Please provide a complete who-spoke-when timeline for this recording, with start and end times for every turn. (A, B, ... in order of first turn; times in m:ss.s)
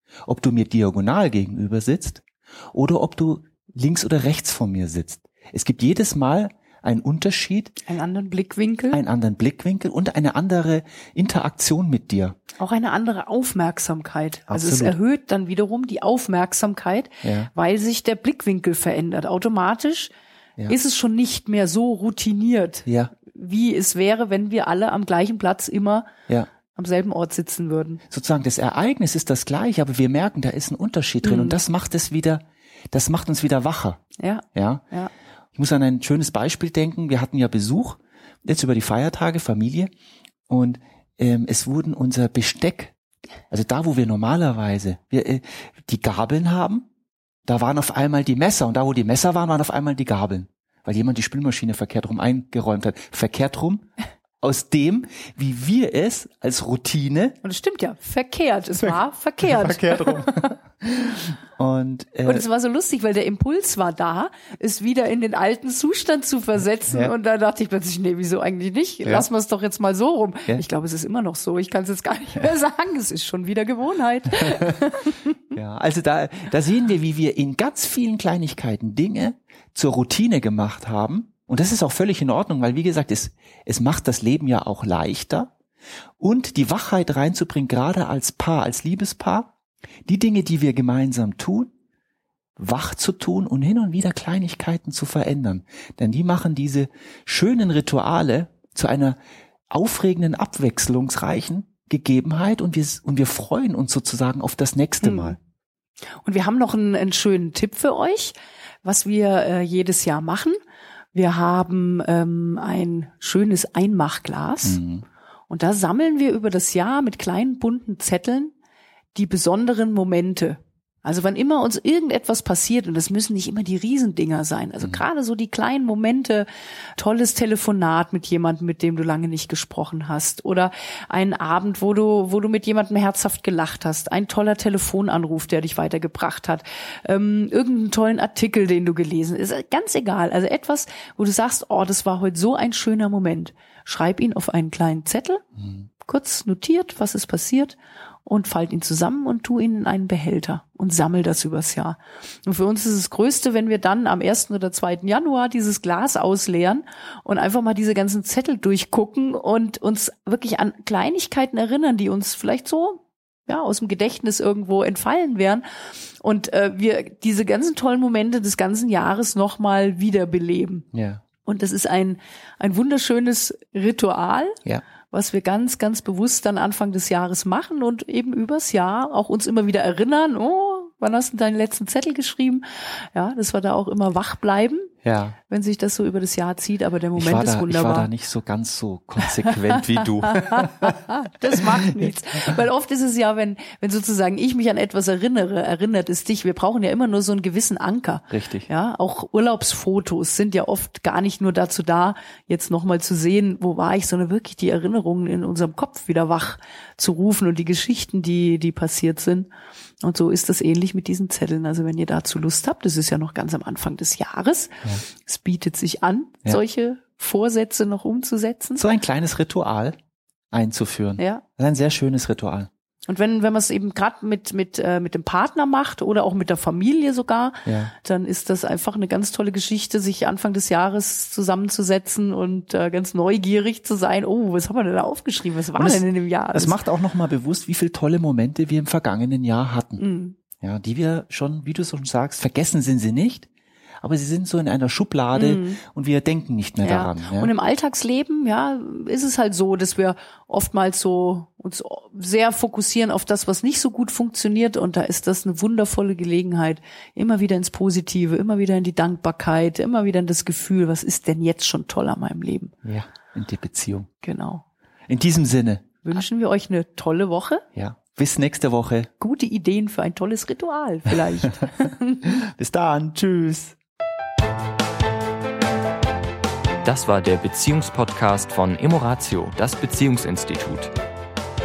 0:00.2-0:07.8 A
0:07.9-0:09.0 B
0:08.9-0:12.4 A
0:12.6-0:20.1 B
0:14.5-0:15.0 A
0:17.2-0:17.5 A
0:20.7-0:26.1 B
0:22.8-0:23.1 A
0:26.7-0:28.0 B
0:28.1-0:34.0 A
0:31.2-0:31.6 B
0:34.2-0:35.1 B
0:34.5-0:34.8 A
0:35.6-0:39.9 A
0:40.5-0:42.9 A
0:43.5-0:46.8 A
0:47.5-0:53.9 A
0:54.4-0:57.4 A
0:57.4-1:00.5 B
0:58.8-1:02.4 A
1:02.2-1:15.4 B
1:15.5-1:25.5 A
1:26.2-1:29.5 A
1:30.0-1:31.7 A
1:32.6-1:39.2 A
1:39.7-1:45.4 A
1:45.0-1:45.4 B
1:46.2-1:50.6 B
1:51.1-1:54.8 B
1:54.6-1:55.0 A
1:55.5-1:58.5 B
1:59.1-2:25.4 B
2:26.0-2:45.6 B
2:46.2-2:50.8 B
2:50.9-2:51.2 A
2:51.4-2:54.6 B
2:55.1-3:04.9 B
3:05.0-3:05.4 A
3:05.4-3:08.1 B
3:07.2-3:11.0 A
3:09.5-3:29.5 B
3:11.5-3:12.1 A
3:18.3-3:18.7 A
3:30.0-3:38.8 B
3:38.8-3:40.0 A
3:40.5-3:42.7 A
3:41.2-3:41.4 B
3:43.1-3:56.8 B
3:47.6-3:47.9 A
3:55.7-4:00.0 A
4:00.0-4:00.4 B
4:00.6-4:03.5 A
4:04.0-4:07.5 A
4:05.3-4:05.8 B
4:06.8-4:22.7 B
4:22.8-4:24.1 A
4:24.2-4:24.6 B
4:25.1-4:25.9 A
4:26.0-4:27.6 B
4:27.7-4:29.1 A
4:29.2-4:32.3 B
4:32.3-4:33.8 A
4:36.8-4:40.9 C